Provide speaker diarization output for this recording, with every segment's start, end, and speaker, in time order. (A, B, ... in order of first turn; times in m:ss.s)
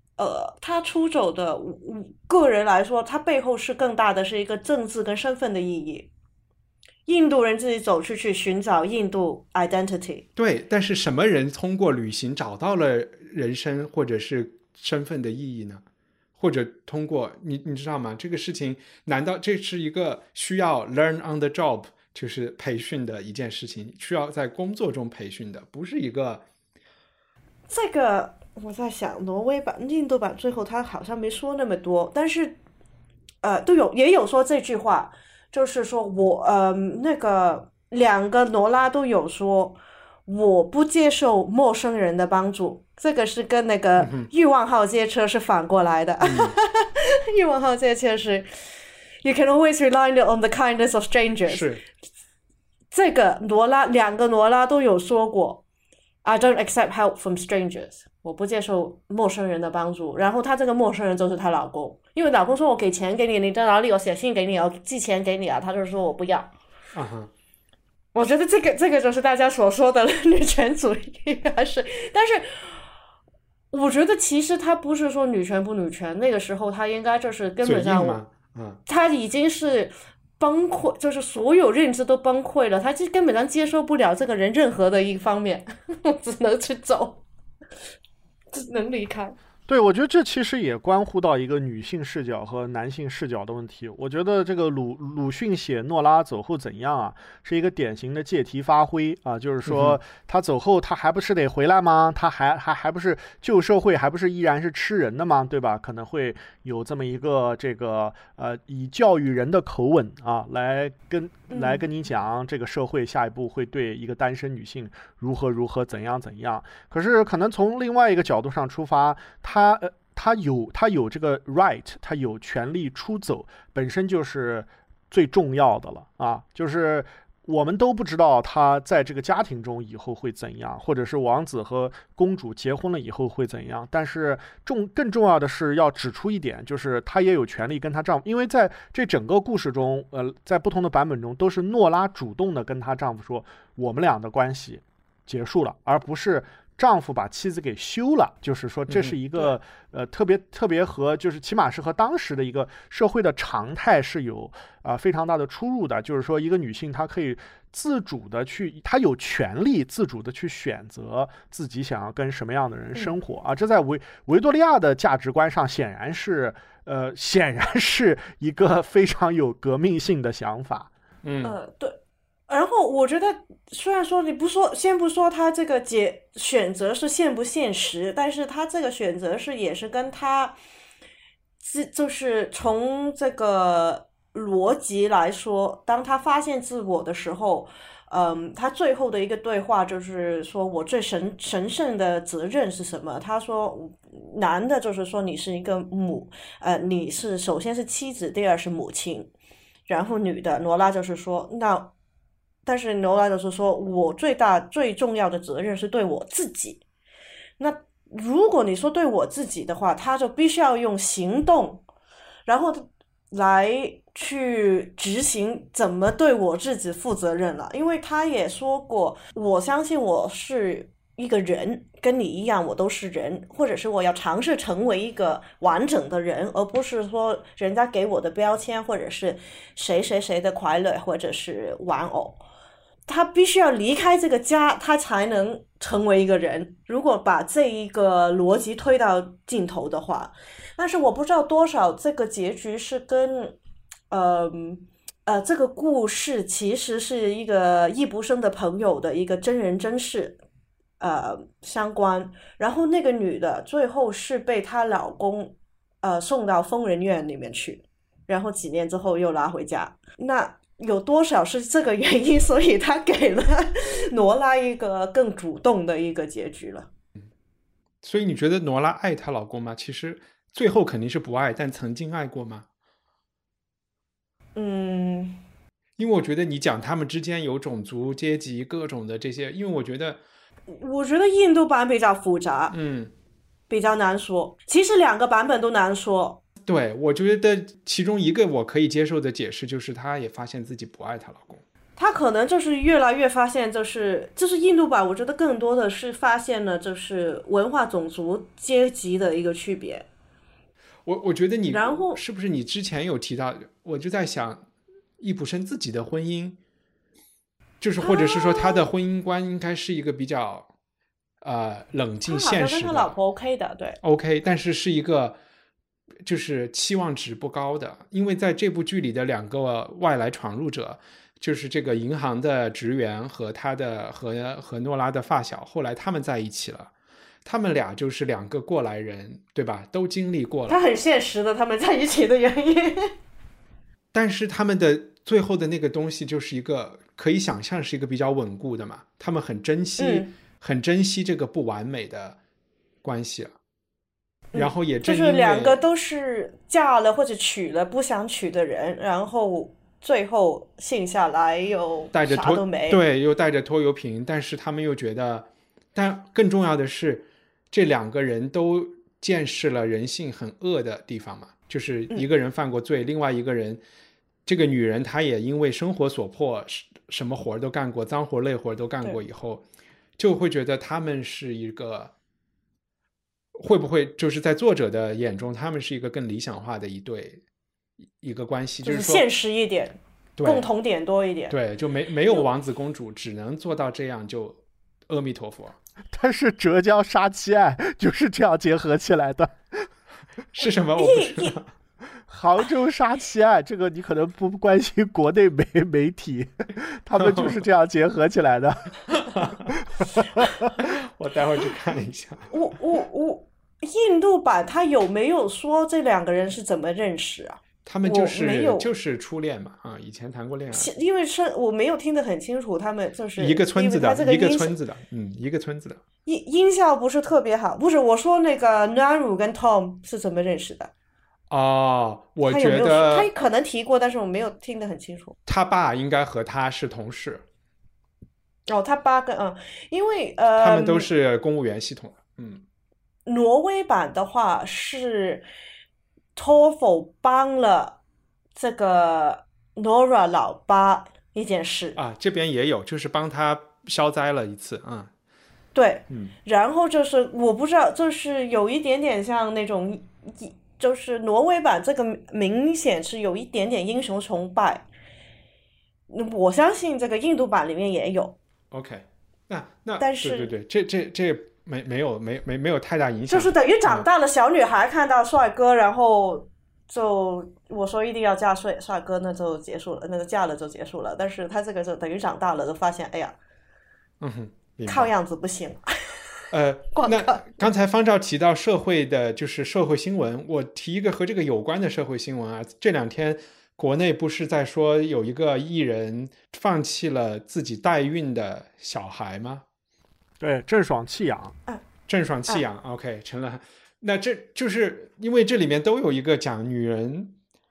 0:00.2-0:06.1 A
0:07.1-0:10.2 A
0:10.4-0:15.8 B
0:16.4-0:26.4 B
0:27.7-0:32.6 A
0:33.4-0:48.5 A
0:44.0-0:44.3 B
0:46.2-0:46.6 B
0:49.2-0:51.7 A
0:51.5-0:51.8 B
0:52.9-0:55.6 A
0:56.2-1:06.5 A
1:06.9-1:07.3 B
1:08.2-1:12.7 A
1:13.7-1:18.2 A
1:17.6-1:18.8 B
1:18.9-1:27.2 A
1:28.5-1:29.4 A
1:29.7-2:50.9 C
1:39.7-1:40.0 B
1:51.5-1:51.8 A
2:28.9-2:29.2 B
2:51.2-2:51.6 B
2:51.4-2:52.0 A
2:52.5-3:00.6 A
3:01.6-3:19.3 A
3:19.9-3:21.9 A
3:22.6-3:26.8 A
3:27.6-3:31.8 A
3:32.5-3:52.4 A
3:53.1-4:03.6 A
4:04.1-4:10.4 A
4:11.0-4:26.9 A
4:28.0-4:32.7 B
4:34.6-4:35.4 A
4:36.0-4:40.2 B
4:40.7-4:42.8 A
4:42.7-4:43.1 B
4:43.7-4:46.4 A
4:46.6-4:51.6 B
4:52.0-5:00.1 A
5:01.0-5:04.7 B
5:01.7-5:02.2 A
5:05.2-5:06.6 B
5:07.8-5:10.7 B
5:08.0-5:08.9 A
5:11.4-5:13.2 B
5:12.3-5:14.0 A
5:14.0-5:15.4 B
5:16.2-5:26.9 B
5:27.4-5:30.8 B
5:30.7-5:33.1 A
5:34.1-5:42.4 B
5:40.0-5:40.3 A
5:43.0-5:43.6 B
5:44.5-5:53.0 A
5:44.5-5:45.8 B
5:52.1-6:03.8 B
6:04.5-6:09.6 B
6:10.2-6:12.1 B
6:13.6-6:17.4 B
6:18.2-6:19.2 B
6:18.8-6:21.5 A
6:20.4-6:20.7 B
6:21.5-6:25.8 B
6:26.1-6:29.9 C
6:30.6-6:31.7 B
6:31.0-6:31.6 A
6:32.3-6:39.2 C
6:37.2-6:37.6 B
6:39.3-6:39.6 B
6:40.8-6:42.5 B
6:42.5-6:48.9 A
6:47.8-6:50.9 B
6:50.7-6:54.8 A
6:53.4-6:56.0 B
6:56.3-7:00.9 A
7:01.5-7:03.3 B
7:02.5-7:05.4 A
7:05.5-7:07.4 B
7:08.7-7:11.1 A
7:10.6-7:12.6 B
7:13.3-7:15.4 A
7:16.4-7:18.0 A
7:18.6-7:22.0 A
7:22.0-7:25.1 B
7:25.7-7:34.8 A
7:26.1-7:26.4 B
7:36.1-7:38.4 A
7:38.7-7:44.0 B
7:40.0-7:40.5 A
7:43.3-7:53.4 A
7:54.2-7:55.1 B
7:54.9-7:55.9 A
7:56.5-8:09.6 B
7:56.9-7:57.4 A
8:10.4-8:11.6 C
8:12.1-8:17.4 B